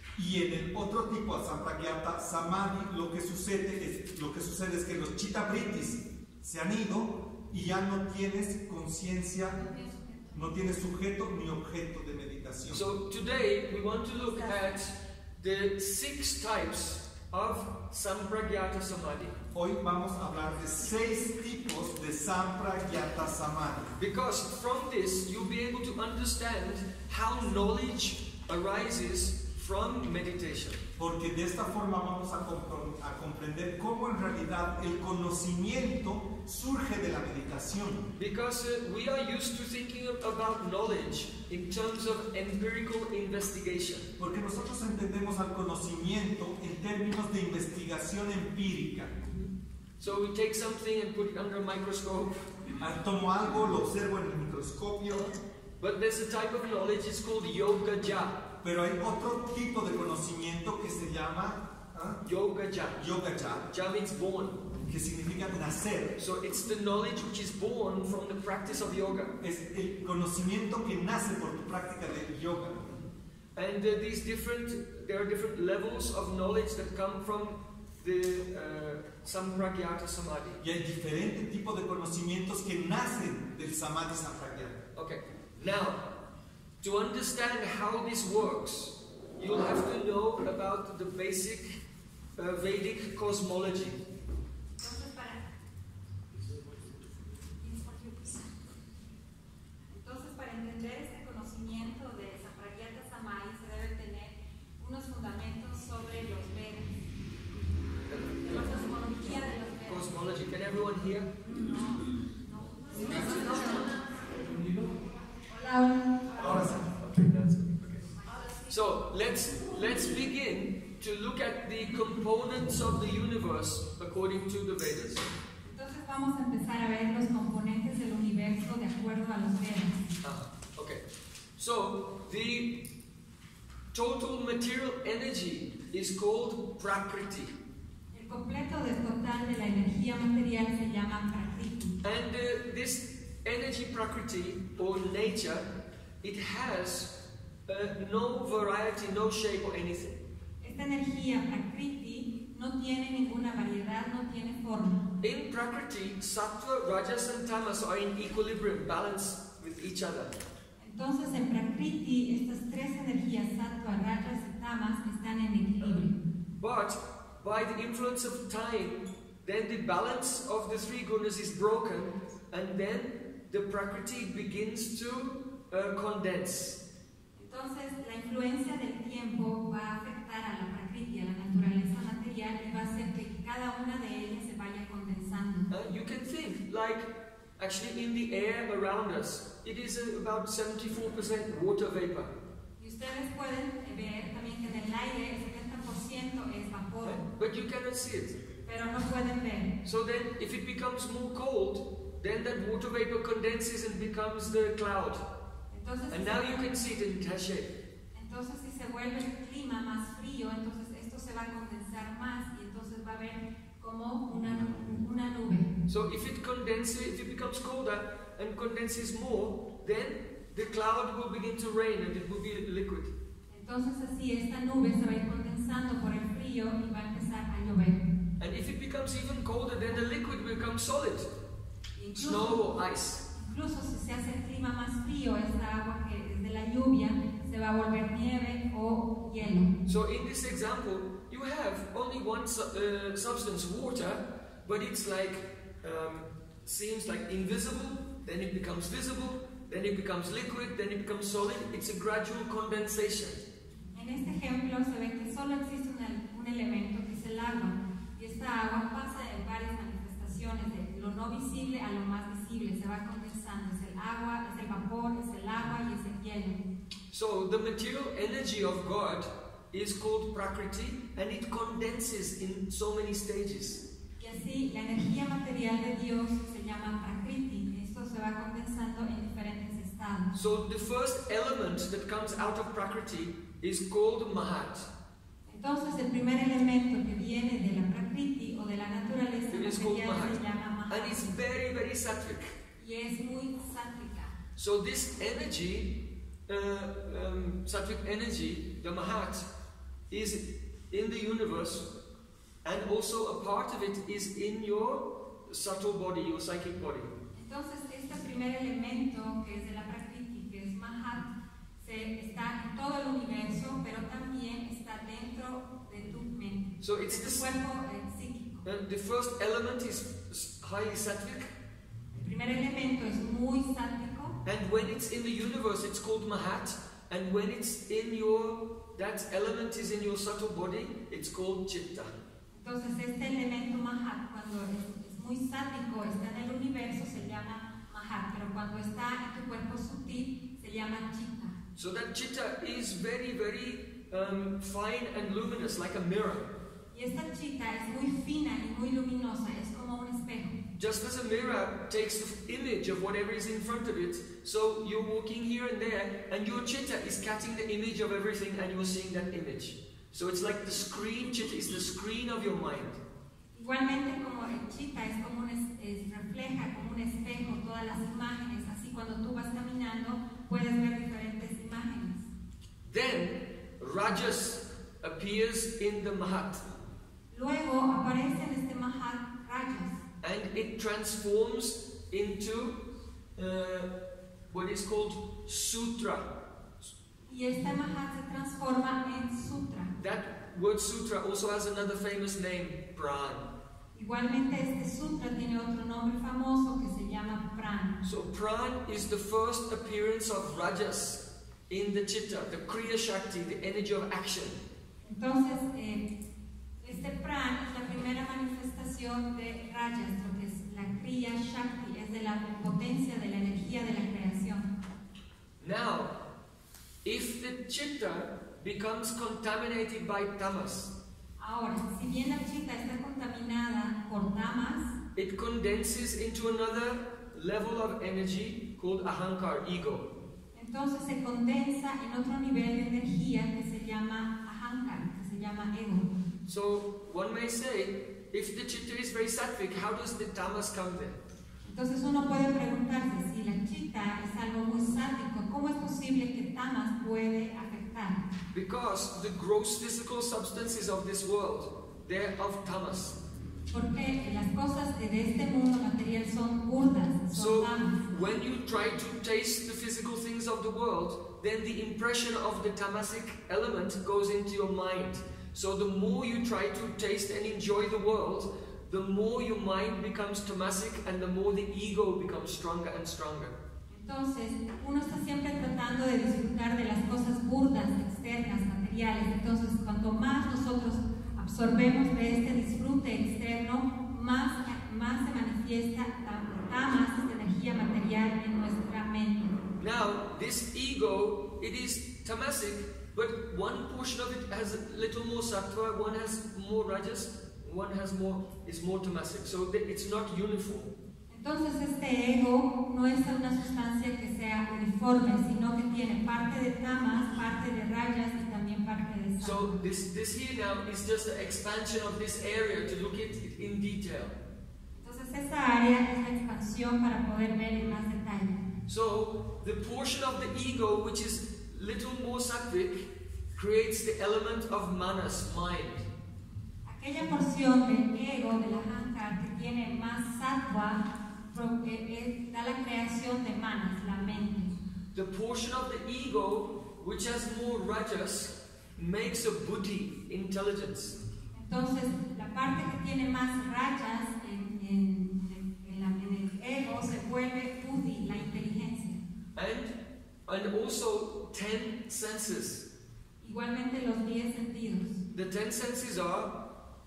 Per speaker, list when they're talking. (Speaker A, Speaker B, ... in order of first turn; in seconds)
Speaker A: 0.2-9.6, 10.3-12.8, 19.5-23.9, 31.0-38.1, 44.2-49.1, 52.8-55.3, 58.6-62.2, 63.0-63.7, 64.9-66.2, 69.4-72.9, 80.6-84.8
Speaker B: 9.5-10.4, 94.8-95.5, 97.6-98.5, 99.9-107.1, 108.4-110.1, 111.5-116.9, 118.2-118.7, 125.7-130.1, 138.1-142.0, 150.6-155.0, 160.8-166.2, 177.4-185.7, 192.8-197.2, 198.7-199.8, 205.7-206.7, 208.1-215.7, 223.5-228.1, 232.0-232.6, 233.3-239.7, 253.9-266.6, 274.2-280.3, 285.5-291.4, 292.8-294.4, 307.4-311.3, 311.8-318.6, 322.1-324.4, 332.5-341.6, 346.9-350.6, 363.5-372.3, 377.3-380.0, 387.3-389.9, 393.9-398.0, 405.0-406.0, 406.8-414.7, 421.4-424.9, 430.6-436.1, 441.6-448.2, 453.7-458.0, 473.9-489.6, 501.3-509.8, 515.0-518.6, 526.9-534.7, 541.5-549.2, 553.4-555.2
Speaker C: 12.7-19.4, 24.0-30.8, 38.2-44.1, 49.2-52.5, 55.1-58.5, 62.2-63.0, 63.7-64.7, 66.2-69.4, 73.6-80.6, 85.0-86.0, 86.8-91.8, 92.4-94.0, 96.5-96.8, 108.1-108.8, 109.9-111.3, 113.0-114.0, 116.3-118.1, 118.7-125.3, 130.2-131.0, 131.6-132.9, 133.9-137.6, 142.0-145.7, 146.2-150.2, 155.2-160.3, 165.8-166.1, 166.6-176.8, 185.7-192.3, 197.0-198.4, 199.8-205.2, 206.1-207.7, 215.9-223.1, 228.4-231.3, 232.2-233.2, 239.9-253.4, 267.1-273.8, 280.3-284.9, 289.5-292.6, 294.6-299.5, 300.1-301.9, 302.6-307.1, 316.8-317.5, 318.6-321.5, 324.4-332.1, 341.8-346.5, 350.8-363.0, 372.9-376.7, 380.2-382.8, 383.4-383.9, 384.5-386.3, 390.0-393.5, 398.0-404.6, 415.6-416.1, 417.0-420.9, 425.2-430.1, 436.5-441.2, 448.5-453.2, 457.3-473.6, 489.8-500.9, 509.4-514.4, 518.9-526.1, 535.1-541.2, 549.6-550.0, 550.5-552.9, 555.3-556.5